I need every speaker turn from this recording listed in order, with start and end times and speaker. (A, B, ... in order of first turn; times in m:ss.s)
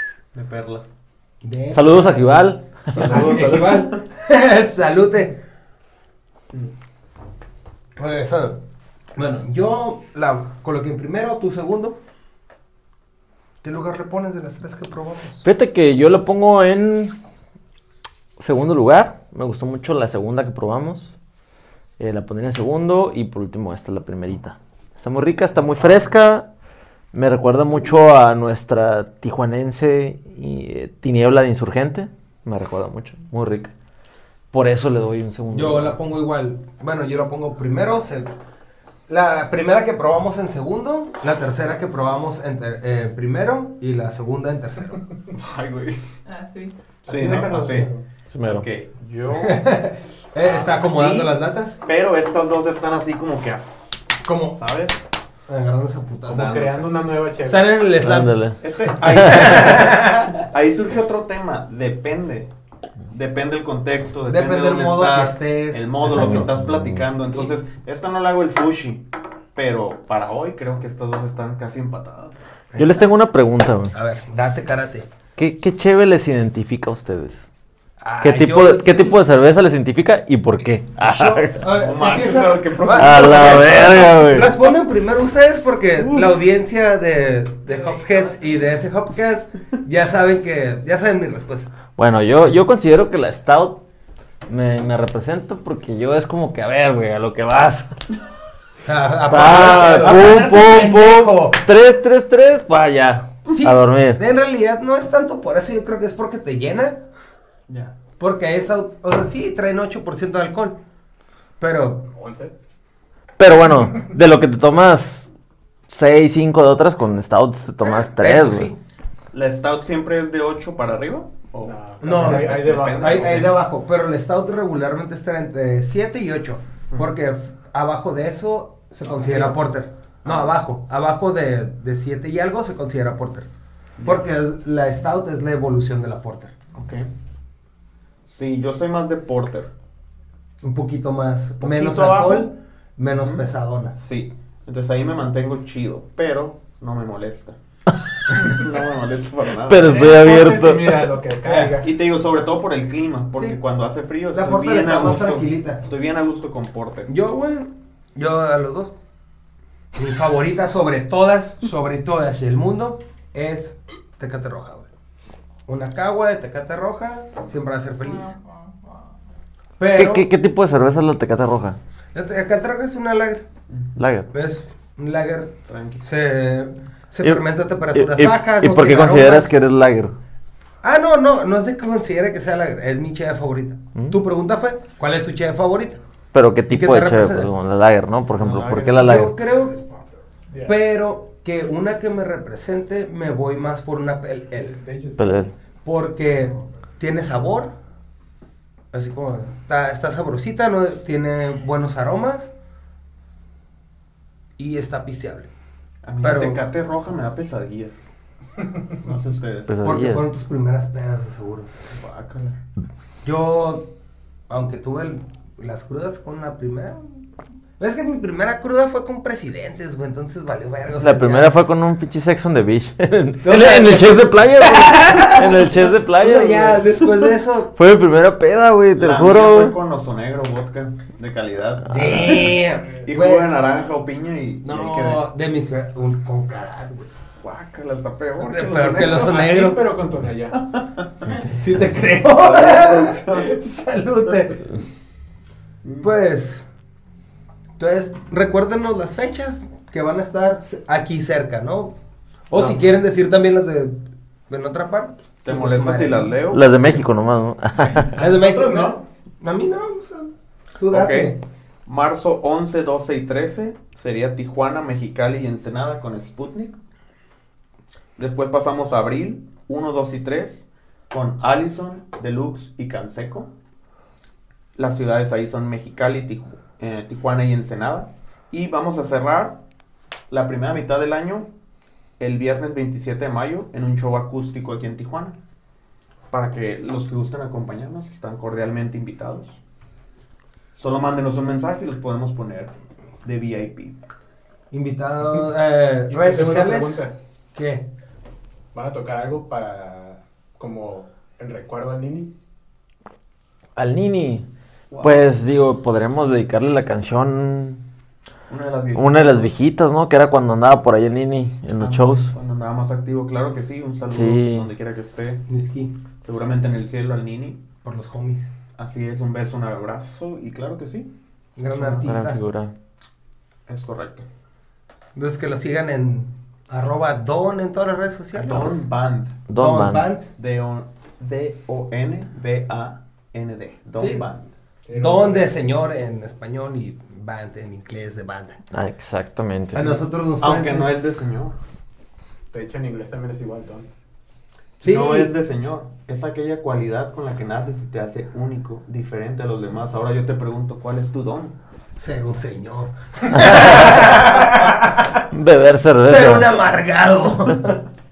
0:00.3-0:00.9 A
0:01.4-0:05.4 B
0:01.7-0:03.2 C
0:02.9-0:04.0 A
0:08.0-0:08.6 B
0:09.1-0:12.0 B
0:13.6-0:15.4 B
0:15.4-0:17.1 C
0:18.4-0:21.1 C
0:22.0-0:26.5 C
0:27.1-0:33.7 C
0:34.5-0:36.0 C
0:35.5-0:38.3 B
0:39.1-0:45.0 B
0:45.3-0:46.1 A
0:46.2-0:46.7 D
0:47.0-0:48.0 E
0:47.0-0:49.8 A
0:47.2-0:47.9 B
0:48.3-0:48.6 C
0:49.4-0:51.8 B
0:50.9-0:51.3 A
0:51.8-0:55.0 A
0:54.2-0:54.6 B
0:55.5-0:56.9 B
0:56.3-0:57.7 E
0:57.4-1:00.4 B
0:58.0-0:59.7 C
0:58.6-1:02.5 A
1:03.1-1:12.4 A
1:04.3-1:06.6 B
1:06.1-1:07.0 C
1:12.7-1:13.1 B
1:12.8-1:14.0 C
1:13.9-1:15.1 B
1:15.4-1:17.4 C
1:18.0-1:19.2 B
1:18.2-1:21.6 C
1:21.0-1:31.7 B
1:21.7-1:23.9 A
1:22.9-1:24.5 C
1:27.7-1:28.6 D
1:32.0-1:33.8 C
1:34.5-1:37.9 C
1:38.8-1:41.6 B
1:39.3-1:44.2 C
1:43.5-1:47.0 B
1:47.7-1:48.0 A
1:48.2-1:50.8 B
1:51.6-1:52.1 B
1:52.1-1:52.5 E
1:53.4-1:55.2 C
1:55.9-1:58.7 C
1:57.8-1:58.8 B
1:59.3-2:03.6 A
2:01.6-2:03.4 E
2:02.0-2:13.5 B
2:09.2-2:09.6 E
2:14.0-2:14.2 A
2:14.0-2:16.5 B
2:16.7-2:17.1 A
2:18.3-2:19.7 A
2:20.6-2:24.0 B
2:21.6-2:22.5 A
2:24.0-2:27.6 A
2:28.3-2:30.0 A
2:29.6-2:30.9 C
2:29.8-2:31.9 E
2:30.1-2:31.8 B
2:31.8-2:37.1 A
2:34.3-2:35.8 B
2:37.1-2:38.9 B
2:40.0-2:44.9 B
2:45.7-2:48.4 B
2:48.0-2:49.1 D
2:49.8-2:50.3 B
2:49.9-2:51.8 C
2:52.1-2:53.4 B
2:54.0-2:54.3 C
2:54.3-2:59.5 B
2:55.7-2:56.0 A
2:57.2-3:00.1 C
3:00.8-3:06.0 B
3:06.3-3:09.4 C
3:06.7-3:07.5 B
3:08.4-3:09.3 A
3:08.9-3:09.8 B
3:10.5-3:10.8 E
3:10.6-3:14.8 B
3:14.6-3:15.4 E
3:15.2-3:15.5 C
3:15.8-3:17.7 B
3:18.9-3:22.5 B
3:24.6-3:25.5 B
3:26.0-3:28.0 A
3:26.2-3:26.6 B
3:29.0-3:29.7 A
3:29.7-3:30.2 C
3:29.8-3:31.7 B
3:31.9-3:32.6 A
3:33.2-3:33.9 B
3:34.5-3:37.2 B
3:37.8-3:41.6 B
3:41.0-3:46.9 C
3:43.4-3:47.7 B
3:47.7-3:49.8 C
3:49.0-3:55.2 A
3:51.8-3:53.5 B
3:52.0-3:52.3 C
3:54.6-3:57.1 B
3:57.4-3:59.5 A
3:58.4-3:59.8 B
3:59.0-4:00.6 E
4:00.5-4:01.5 A
4:01.4-4:04.8 B
4:02.3-4:03.6 A
4:05.8-4:06.1 A
4:06.0-4:06.6 B
4:07.8-4:12.0 B
4:12.5-4:16.4 B
4:15.4-4:16.8 A
4:16.5-4:18.2 C
4:18.0-4:21.4 B
4:18.2-4:19.0 A
4:20.9-4:26.8 A
4:28.2-4:33.5 A
4:34.8-4:39.6 A
4:40.3-4:41.5 A
4:42.2-4:45.4 A
4:46.3-4:49.6 A
4:50.8-4:52.7 A
4:53.2-4:54.0 A
4:54.7-4:57.9 B
4:56.1-4:57.1 E
4:58.7-5:02.3 E
5:03.8-5:04.4 C
5:05.0-5:07.8 C
5:08.5-5:09.5 A
5:09.0-5:12.3 C
5:11.8-5:15.4 A
5:14.1-5:14.7 C
5:15.5-5:15.9 B
5:16.2-5:17.6 A
5:17.8-5:18.5 B
5:18.8-5:21.1 A
5:21.6-5:22.4 B
5:21.7-5:22.0 A
5:22.0-5:22.7 C
5:23.7-5:24.2 A
5:25.2-5:28.8 B
5:28.3-5:29.4 A
5:29.5-5:30.1 C
5:29.5-5:30.3 B
5:30.4-5:34.5 A
5:34.0-5:34.3 B
5:34.9-5:35.4 E
5:34.9-5:38.6 B
5:38.7-5:40.0 C
5:39.7-5:40.9 B
5:40.4-5:41.6 A
5:42.5-5:43.9 E
5:44.8-5:45.3 B
5:44.8-5:51.6 A
5:52.0-5:55.2 B
5:53.3-5:53.8 C
5:55.3-5:56.5 C
5:56.0-5:57.8 B